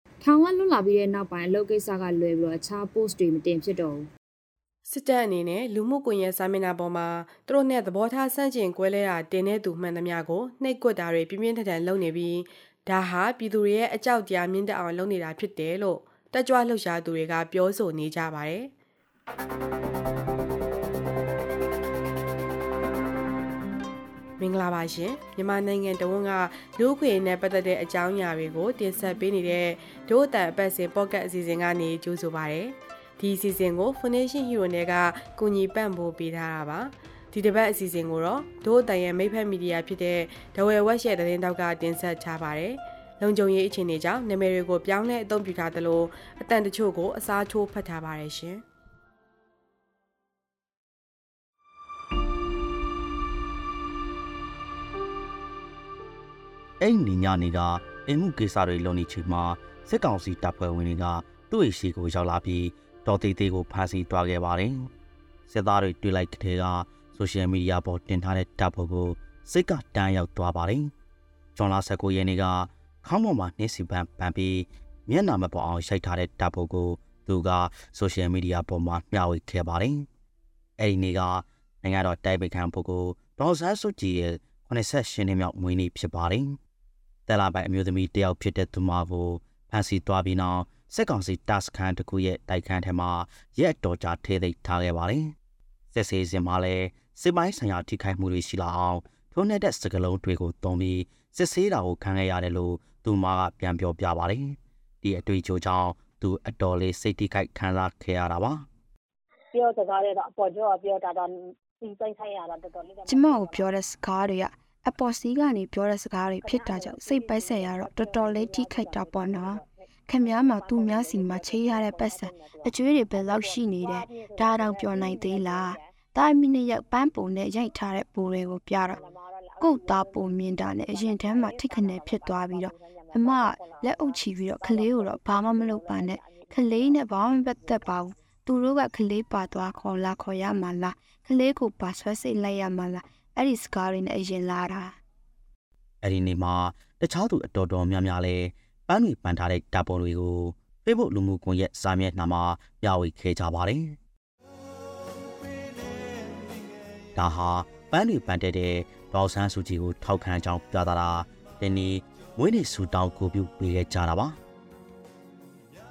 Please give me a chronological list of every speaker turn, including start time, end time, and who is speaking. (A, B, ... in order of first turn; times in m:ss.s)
0:00.2-0:04.1 A
0:04.9-0:18.7 B
0:24.4-0:48.6 B
0:56.8-1:04.9 C
1:05.5-1:10.9 C
1:11.6-1:20.1 C
1:20.8-1:26.6 C
1:27.3-1:35.4 C
1:35.9-1:48.7 C
1:49.5-1:53.7 D
1:53.1-2:09.0 E
1:56.4-1:59.7 D
2:00.2-2:05.8 D
2:08.9-2:17.9 D
2:09.6-2:25.0 E
2:26.0-2:34.0 C
2:37.2-2:44.4 C